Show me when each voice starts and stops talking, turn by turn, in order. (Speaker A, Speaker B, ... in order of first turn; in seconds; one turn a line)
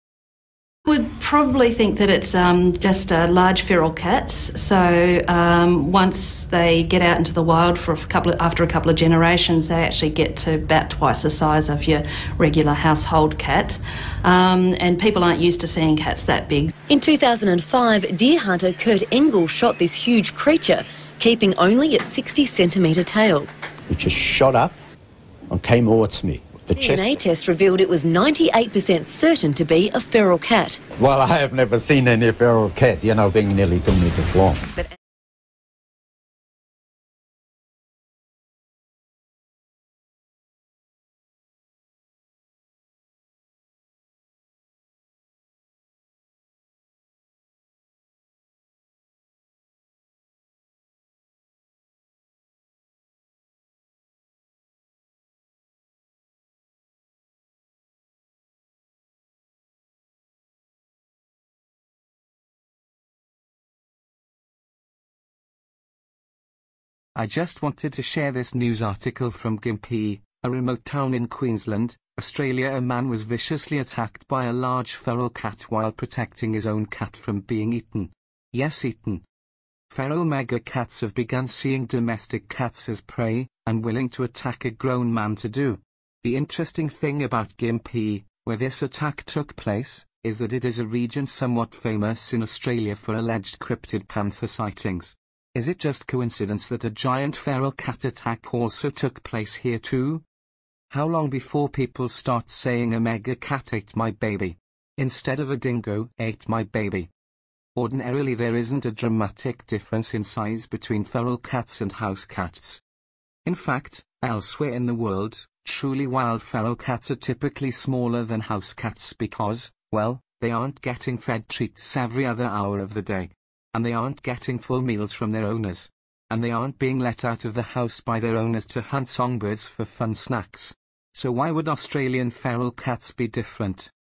Speaker A: 0.8-16.7
Speaker B: 16.9-23.5
Speaker C: 23.9-24.7
Speaker C: 25.5-27.2
Speaker B: 26.8-30.8
Speaker C: 30.9-34.6
Speaker D: 67.2-79.2
Speaker D: 79.9-100.2
Speaker D: 100.9-107.1
Speaker D: 107.7-112.8
Speaker D: 113.4-133.9